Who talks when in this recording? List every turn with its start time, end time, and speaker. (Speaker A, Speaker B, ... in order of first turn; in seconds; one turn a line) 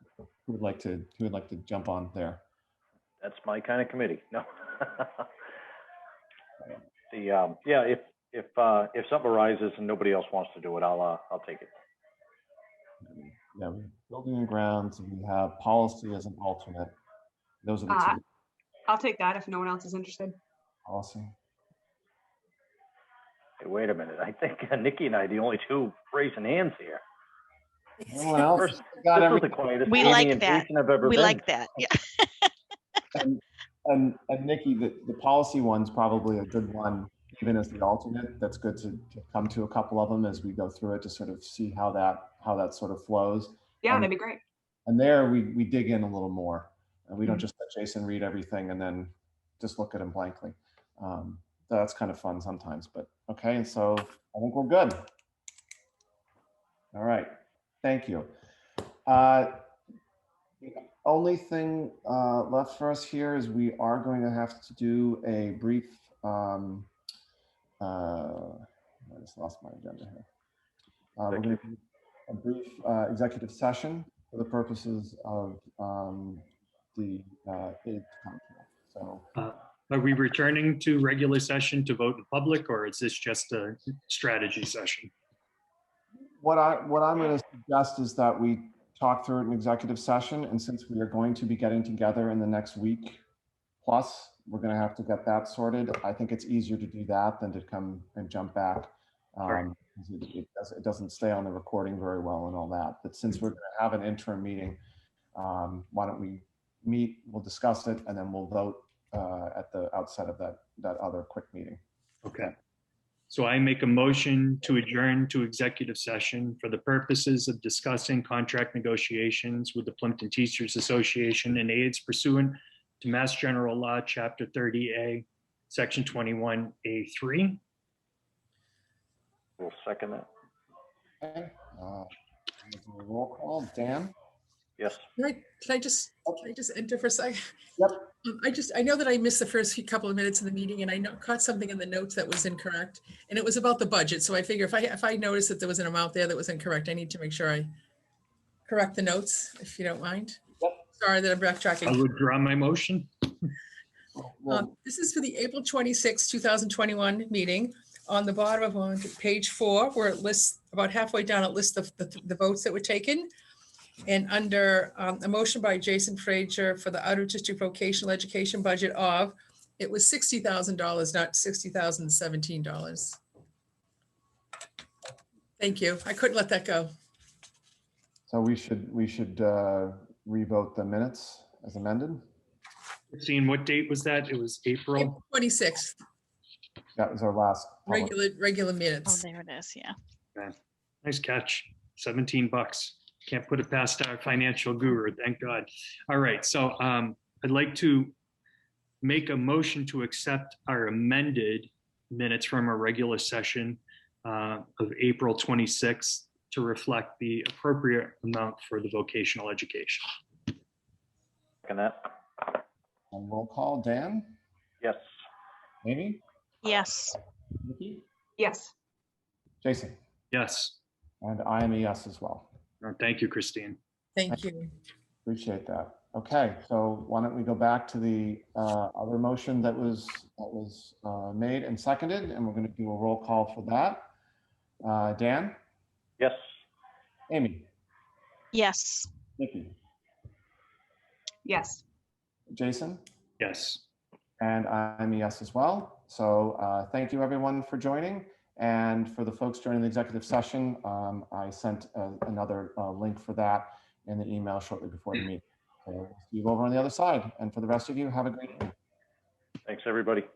Speaker A: 0.5-2.4
Speaker B: 3.2-5.3
Speaker B: 7.1-11.7
Speaker A: 13.0-16.9
Speaker A: 17.6-18.2
Speaker C: 17.9-18.2
Speaker C: 18.9-20.4
Speaker A: 20.8-21.4
Speaker B: 23.6-27.0
Speaker D: 28.0-28.5
Speaker A: 28.1-29.6
Speaker B: 28.6-31.5
Speaker E: 29.9-32.5
Speaker A: 33.1-44.1
Speaker C: 43.8-44.4
Speaker A: 44.9-55.0
Speaker A: 56.9-58.3
Speaker A: 59.1-59.7
Speaker A: 60.6-66.9
Speaker A: 67.8-70.2
Speaker A: 71.2-79.3
Speaker B: 71.3-71.6
Speaker F: 79.3-85.1
Speaker A: 86.4-93.2
Speaker A: 93.8-104.8
Speaker A: 105.3-111.8
Speaker F: 112.2-112.5
Speaker F: 113.3-127.6
Speaker B: 129.6-130.3
Speaker A: 131.2-132.1
Speaker A: 132.6-134.1
Speaker B: 134.8-135.0
Speaker D: 135.2-137.4
Speaker D: 138.2-147.7
Speaker D: 148.7-152.0
Speaker F: 151.8-153.5
Speaker A: 154.2-154.7
Speaker D: 154.5-163.3
Speaker D: 164.1-173.2
Speaker D: 175.6-176.9
Speaker A: 178.3-182.2
Speaker F: 183.1-185.2
Speaker D: 184.9-186.0
Speaker A: 186.9-188.1
Speaker D: 187.9-189.2
Speaker E: 189.1-189.9
Speaker F: 190.3-198.1
Speaker F: 199.0-210.1
Speaker B: 211.6-212.5
Speaker A: 213.1-214.3
Speaker A: 215.8-216.2
Speaker E: 216.6-217.2
Speaker A: 217.6-218.0
Speaker C: 218.4-218.7
Speaker A: 219.6-220.0
Speaker F: 220.3-220.8
Speaker A: 221.2-222.5
Speaker F: 222.8-223.8
Speaker D: 224.2-224.7
Speaker A: 225.2-234.1
Speaker A: 234.8-235.6
Speaker A: 237.3-237.7
Speaker E: 238.5-239.1
Speaker A: 239.4-239.8
Speaker C: 241.4-241.8
Speaker A: 242.5-243.0
Speaker F: 243.4-243.8
Speaker A: 244.4-258.7
Speaker B: 259.6-260.3